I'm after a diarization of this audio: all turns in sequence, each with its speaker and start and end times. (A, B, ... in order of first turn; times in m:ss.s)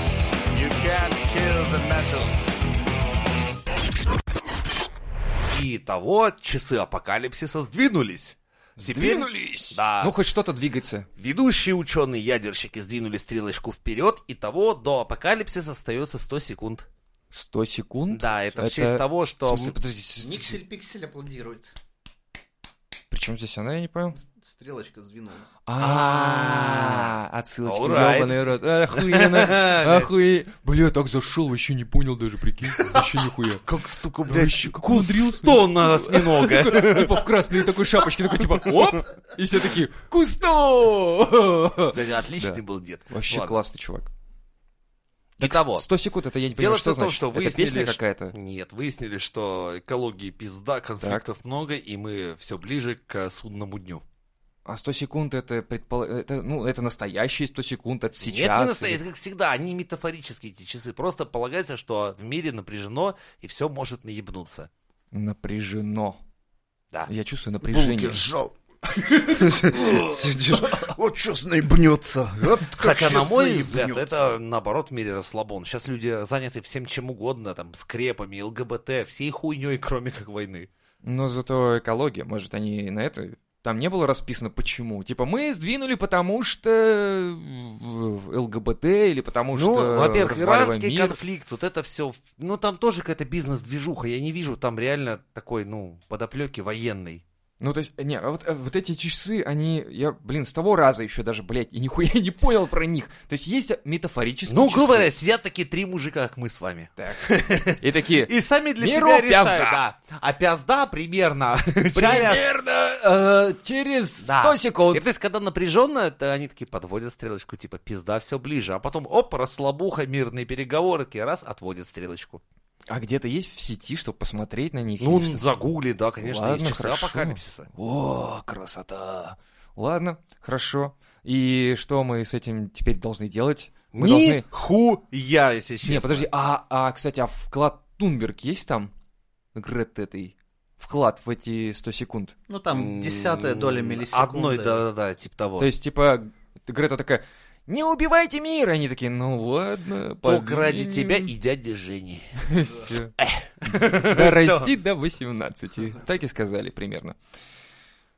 0:00.5-0:02.3 A
0:05.5-0:10.1 A
0:08.8-0:11.1 B
0:11.2-0:16.9 A
0:17.3-0:20.6 B
0:18.1-0:19.8 A
0:20.2-0:21.7 C
0:23.1-0:24.2 B
0:24.4-0:25.5 C
0:25.7-0:33.6 B
0:25.8-0:27.1 A
0:27.7-0:28.4 A
0:28.9-0:30.1 A
0:33.6-0:37.3 A
0:34.3-0:44.1 B
0:41.9-0:43.6 A
0:45.4-0:45.9 A
0:45.4-0:48.3 B
0:46.6-0:54.0 A
0:54.7-0:59.0 B
0:58.2-1:04.7 A
1:05.1-1:06.2 B
1:07.1-1:08.2 B
1:07.6-1:08.5 C
1:09.1-1:14.3 C
1:12.8-1:20.7 A
1:21.0-1:31.2 B
1:29.5-1:37.2 A
1:37.6-1:45.1 B
1:44.5-1:52.4 A
1:47.0-1:49.8 B
1:51.9-1:55.0 B
1:54.2-2:02.4 A
2:02.9-2:05.4 B
2:05.0-2:07.7 A
2:06.2-2:14.4 B
2:13.9-2:16.3 A
2:15.8-2:18.9 B
2:19.6-2:22.4 B
2:22.5-2:24.8 C
2:22.7-2:25.7 A
2:25.6-2:31.3 B
2:30.2-2:32.3 A
2:32.4-2:33.1 B
2:33.2-2:34.7 A
2:33.6-2:37.2 B